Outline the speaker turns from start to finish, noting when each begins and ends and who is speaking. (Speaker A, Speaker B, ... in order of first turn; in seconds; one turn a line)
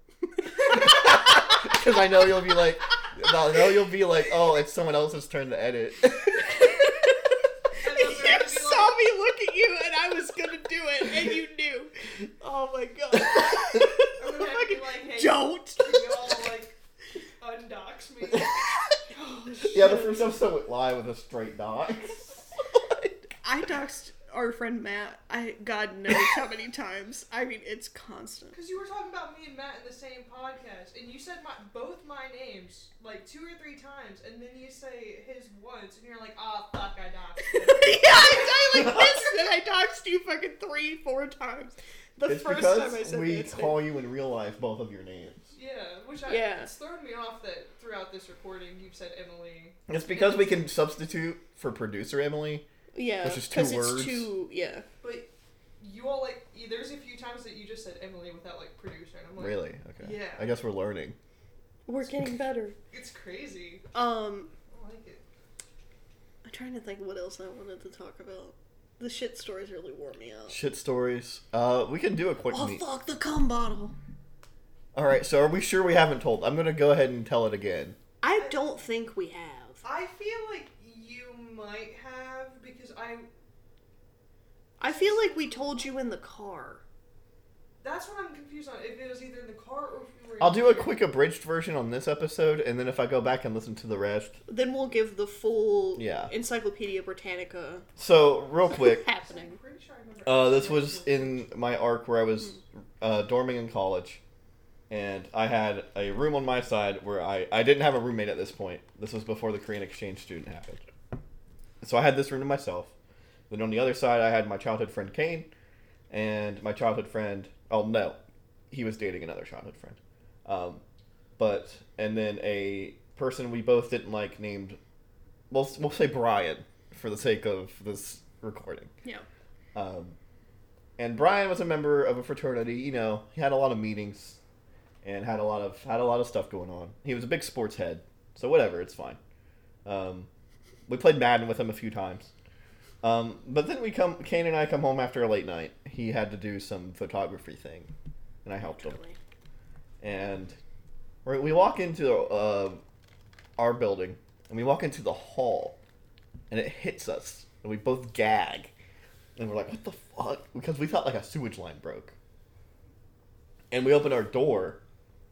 Speaker A: 0.5-6.7
Speaker B: 6.6-7.1
Speaker C: 7.8-9.0
Speaker B: 7.8-16.0
Speaker C: 14.2-16.8
Speaker C: 17.4-18.6
Speaker B: 19.1-20.1
Speaker C: 19.2-20.1
Speaker A: 19.7-23.1
Speaker B: 23.4-28.6
Speaker C: 28.5-38.9
Speaker B: 37.4-43.8
Speaker A: 42.2-45.5
Speaker C: 45.5-50.6
Speaker B: 46.3-46.7
Speaker A: 49.9-52.7
Speaker B: 52.9-54.9
Speaker A: 53.2-54.3
Speaker C: 55.0-60.5
Speaker A: 59.4-61.2
Speaker B: 61.9-62.8
Speaker C: 62.9-63.9
Speaker B: 63.9-64.5
Speaker C: 64.7-65.2
Speaker B: 66.5-70.6
Speaker A: 70.5-72.8
Speaker B: 72.5-74.0
Speaker A: 74.9-78.0
Speaker B: 78.2-79.8
Speaker C: 78.4-78.7
Speaker C: 79.8-83.3
Speaker C: 84.8-85.9
Speaker B: 84.8-86.8
Speaker C: 87.8-91.0
Speaker A: 90.4-94.4
Speaker B: 94.5-97.9
Speaker A: 96.0-96.3
Speaker A: 98.0-99.0
Speaker B: 98.7-99.6
Speaker C: 99.2-101.5
Speaker A: 100.2-104.2
Speaker A: 104.9-110.8
Speaker A: 111.8-112.9
Speaker A: 113.5-115.5
Speaker A: 116.1-118.2
Speaker A: 118.7-120.8
Speaker A: 121.4-124.8
Speaker A: 125.5-128.9
Speaker A: 129.8-130.2
Speaker A: 131.0-134.4
Speaker A: 135.0-139.2
Speaker A: 139.8-140.3
Speaker A: 140.9-142.3
Speaker A: 143.0-147.9
Speaker A: 148.4-149.0
Speaker B: 148.6-149.2
Speaker A: 150.0-150.6
Speaker A: 151.2-152.8
Speaker A: 153.6-155.8
Speaker A: 156.5-158.7
Speaker A: 159.4-162.2
Speaker A: 163.7-164.8